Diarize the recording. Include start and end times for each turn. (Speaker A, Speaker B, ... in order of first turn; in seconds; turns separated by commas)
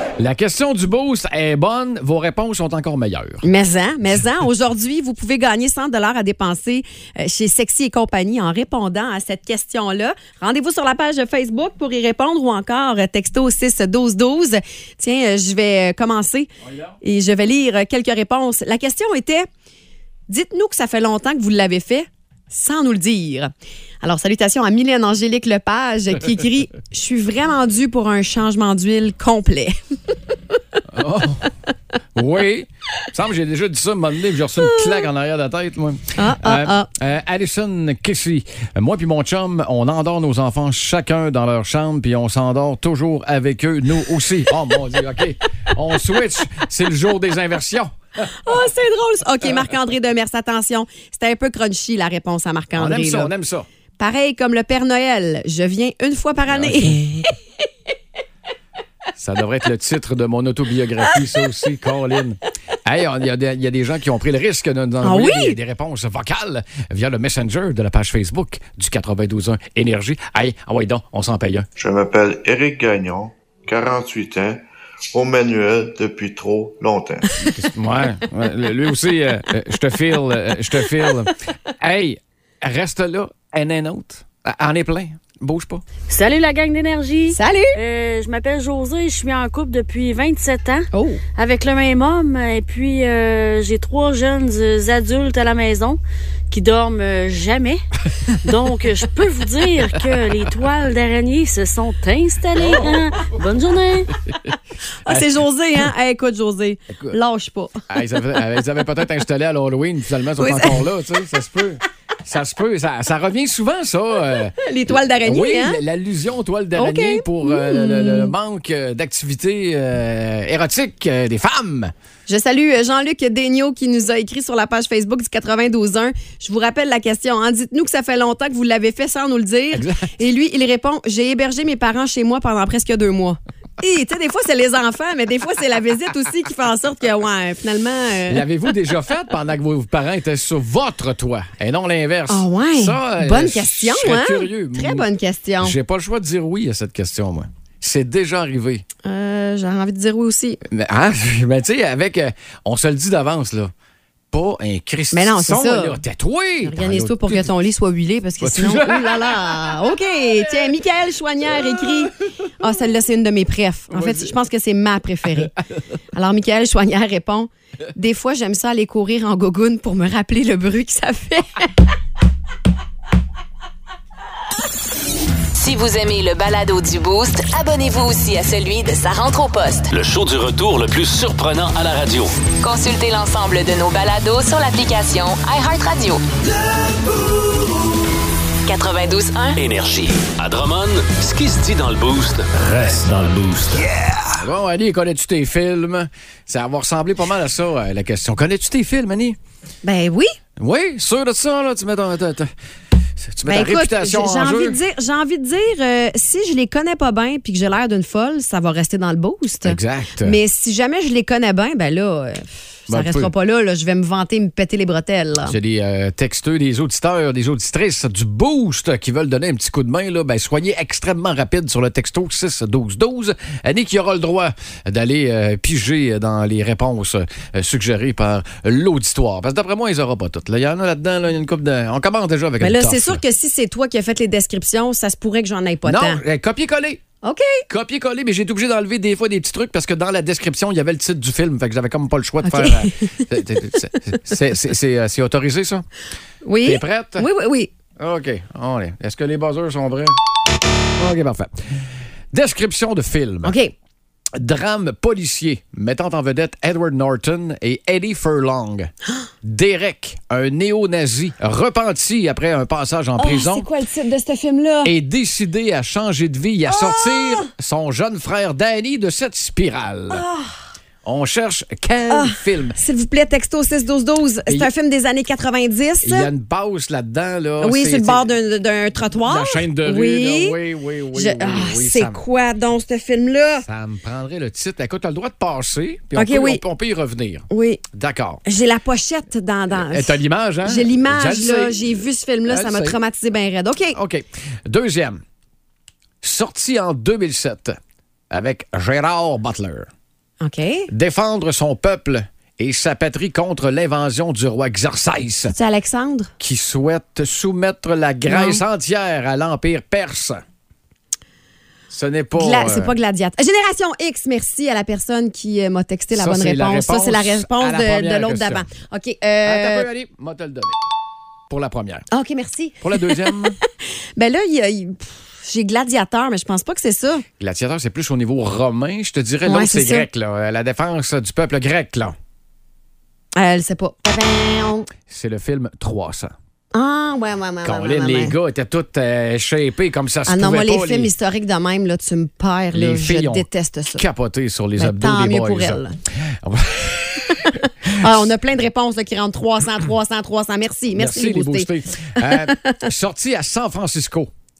Speaker A: 0.2-3.5, Speaker B: 3.4-16.5, Speaker A: 16.6-16.9, Speaker B: 17.0-19.5, Speaker B: 20.3-23.5, Speaker B: 24.0-29.8, Speaker A: 30.9-31.5, Speaker A: 32.1-48.3, Speaker B: 34.6-35.0, Speaker B: 36.2-36.9, Speaker B: 48.4-53.3, Speaker A: 52.8-53.7, Speaker B: 54.0-57.3, Speaker A: 56.5-57.0, Speaker A: 59.2-71.7, Speaker B: 65.0-65.6, Speaker C: 71.8-74.6, Speaker C: 75.1-77.4, Speaker A: 77.5-85.8, Speaker D: 86.1-97.8, Speaker B: 87.3-87.8, Speaker B: 90.9-91.2, Speaker D: 98.3-104.1, Speaker A: 102.6-103.3, Speaker B: 105.0-107.8, Speaker A: 106.9-107.2, Speaker A: 107.9-121.9, Speaker B: 110.4-110.9, Speaker B: 114.5-115.8, Speaker B: 116.8-118.3, Speaker B: 122.3-138.4, Speaker A: 129.7-130.1, Speaker A: 138.3-145.1, Speaker B: 142.3-145.8, Speaker A: 145.6-148.8, Speaker B: 149.1-150.6, Speaker A: 150.7-153.7, Speaker A: 154.3-157.5, Speaker B: 155.1-156.0, Speaker B: 156.6-165.5, Speaker A: 158.4-160.8, Speaker A: 163.9-164.3, Speaker B: 166.1-171.7, Speaker E: 175.6-179.9, Speaker F: 179.9-182.3, Speaker E: 182.6-186.2, Speaker E: 188.7-189.6, Speaker F: 189.6-192.5, Speaker A: 194.3-199.4, Speaker B: 199.8-200.3, Speaker A: 200.6-202.5, Speaker A: 203.2-204.8, Speaker B: 203.5-215.6, Speaker A: 209.6-210.4, Speaker A: 212.9-213.3, Speaker A: 215.4-233.2, Speaker B: 232.6-236.2, Speaker A: 235.8-237.0, Speaker B: 237.2-237.6, Speaker A: 237.7-245.9, Speaker B: 242.4-243.2, Speaker B: 246.4-247.7, Speaker A: 246.6-247.3, Speaker A: 248.0-250.2, Speaker A: 251.0-253.6, Speaker B: 253.4-253.7, Speaker A: 254.4-258.9, Speaker A: 259.4-263.7, Speaker B: 263.2-264.9, Speaker A: 264.8-270.2, Speaker B: 266.7-267.5, Speaker B: 270.1-270.6, Speaker A: 271.0-272.8, Speaker B: 272.1-276.3, Speaker A: 276.0-278.3, Speaker B: 277.6-280.6, Speaker A: 279.2-282.2, Speaker B: 281.1-283.7, Speaker A: 283.6-288.4, Speaker B: 286.1-286.6, Speaker B: 287.5-287.8, Speaker B: 288.4-294.0, Speaker A: 289.7-293.0, Speaker A: 293.9-295.2, Speaker A: 296.2-297.8, Speaker A: 298.3-299.9, Speaker B: 300.4-300.9, Speaker A: 300.9-305.6, Speaker B: 305.5-306.3, Speaker A: 306.4-310.4, Speaker B: 308.3-308.6, Speaker A: 311.9-312.9, Speaker B: 312.4-319.9, Speaker A: 316.1-318.7, Speaker A: 319.4-320.8, Speaker A: 321.5-322.1, Speaker B: 322.1-323.6, Speaker A: 322.8-323.6, Speaker B: 324.2-327.2, Speaker A: 327.4-332.1, Speaker B: 329.5-330.1, Speaker B: 333.4-334.9, Speaker A: 335.1-336.3, Speaker B: 336.7-338.4, Speaker A: 337.6-341.1, Speaker B: 340.3-344.0, Speaker A: 342.7-348.3, Speaker B: 344.8-346.0, Speaker B: 347.6-352.8, Speaker A: 350.9-354.3